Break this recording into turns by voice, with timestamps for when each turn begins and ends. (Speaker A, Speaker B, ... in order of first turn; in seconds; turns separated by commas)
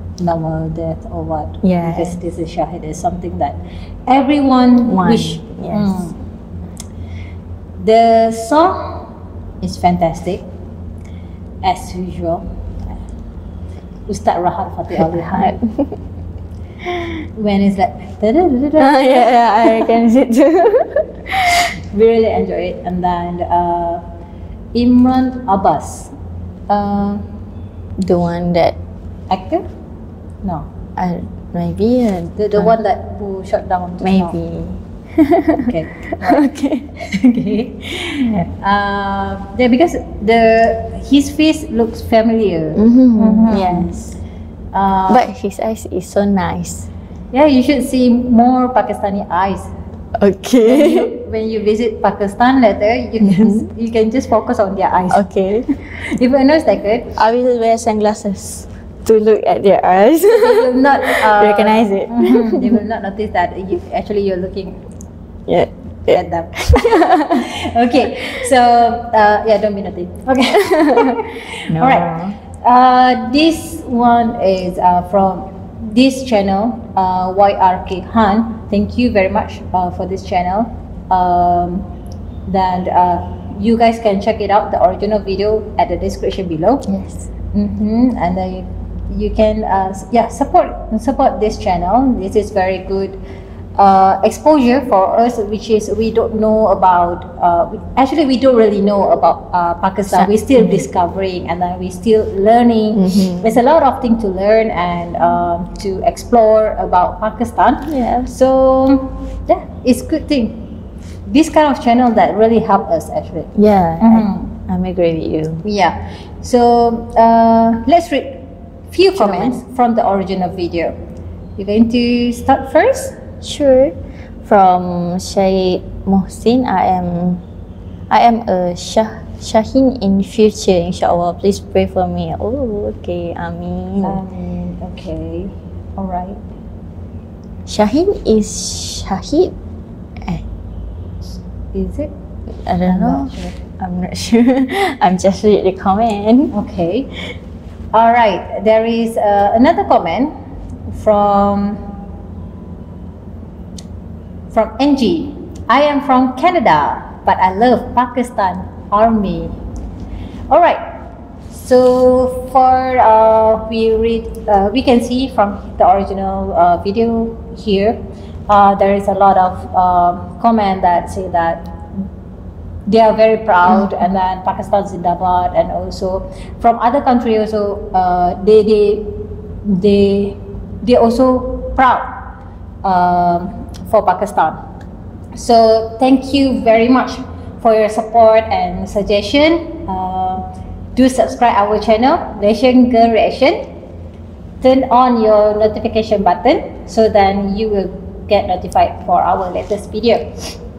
Speaker A: 0.2-6.2, Speaker B: 1.6-2.2, Speaker B: 4.9-6.1, Speaker A: 7.8-8.9, Speaker A: 9.6-10.4, Speaker A: 11.6-12.4, Speaker A: 14.1-15.6, Speaker B: 15.1-16.0, Speaker A: 17.3-19.9, Speaker B: 18.8-21.4, Speaker A: 21.9-24.0, Speaker A: 24.7-26.1, Speaker A: 26.7-27.2, Speaker B: 28.0-28.8, Speaker A: 29.3-29.6, Speaker B: 30.9-32.8, Speaker A: 32.4-34.4, Speaker B: 34.0-35.7, Speaker A: 35.6-43.9, Speaker B: 36.2-36.9, Speaker B: 42.7-44.2, Speaker A: 44.7-45.2, Speaker B: 45.1-46.9, Speaker A: 47.3-49.7, Speaker B: 50.2-51.1, Speaker A: 50.6-55.2, Speaker B: 53.2-53.7, Speaker B: 55.1-55.7, Speaker A: 55.9-57.1, Speaker B: 57.1-62.8, Speaker A: 60.3-64.8, Speaker B: 65.5-67.4, Speaker A: 66.1-81.9, Speaker B: 71.7-72.3, Speaker A: 82.5-86.8, Speaker B: 86.9-87.2, Speaker A: 87.5-93.2, Speaker A: 93.8-110.7, Speaker B: 100.1-100.8, Speaker B: 102.9-103.6, Speaker B: 107.8-108.3, Speaker A: 111.3-113.5, Speaker B: 113.5-115.6, Speaker A: 114.0-114.5, Speaker A: 115.6-120.9, Speaker B: 119.1-119.6, Speaker A: 121.6-123.2, Speaker B: 123.4-127.4, Speaker B: 128.1-134.2, Speaker A: 134.0-136.4, Speaker B: 137.7-139.5, Speaker A: 141.7-142.1, Speaker B: 142.7-146.5, Speaker A: 142.9-143.6, Speaker A: 146.5-147.1, Speaker A: 147.9-150.3, Speaker A: 150.9-151.8, Speaker A: 154.5-159.6, Speaker A: 160.5-160.8, Speaker A: 161.5-168.0, Speaker A: 168.5-171.7, Speaker A: 172.9-182.1, Speaker A: 182.8-184.6, Speaker A: 185.3-193.7, Speaker A: 194.6-200.3